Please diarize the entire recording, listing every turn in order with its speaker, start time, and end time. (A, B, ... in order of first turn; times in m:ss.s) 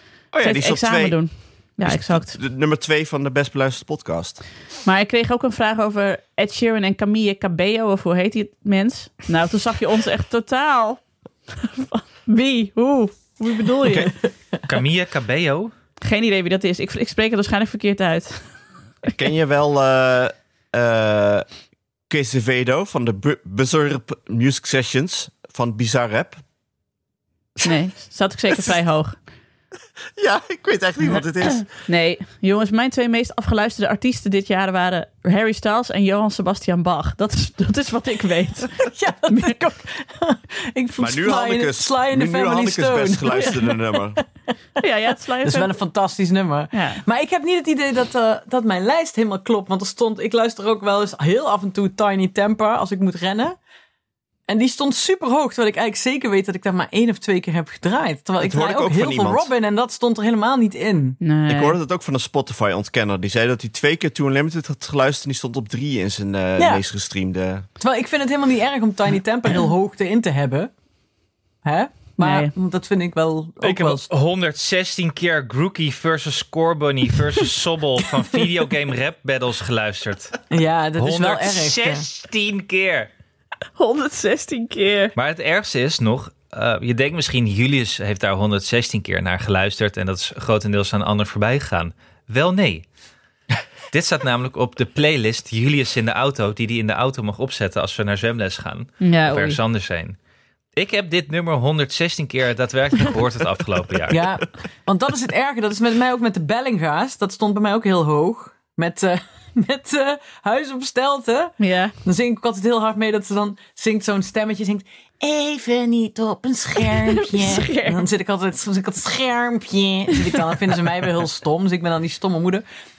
0:00.3-0:01.2 A
0:00.4-0:02.4 B
0:01.8-0:04.4 A
0:04.9-0:11.0 B
0:11.5-0:14.2 B
0:14.6-0:15.7 C
0:16.0-0:18.5 B
0:19.1-0:21.4 A
0:22.1-0:26.4 A
0:27.6-0:29.2 B
0:30.2-0:31.7 A
0:31.1-0:39.6 B
0:38.8-0:44.1 D
0:41.0-0:44.2 A
0:44.8-0:45.8 B
0:45.4-0:53.6 D
0:46.7-0:47.0 B
0:54.5-1:01.2 D
0:58.4-0:59.5 A
1:01.2-1:01.8 B
1:01.5-1:07.6 A
1:07.8-1:10.7 D
1:11.6-1:14.1 D
1:12.2-1:12.5 B
1:13.6-1:20.4 C
1:20.5-1:22.1 D
1:21.0-1:23.1 C
1:23.8-1:25.1 B
1:25.2-1:32.8 C
1:33.9-1:40.2 C
1:39.0-1:39.6 B
1:40.7-1:44.3 C
1:44.1-2:02.6 D
1:51.6-1:51.9 B
1:56.8-1:58.0 B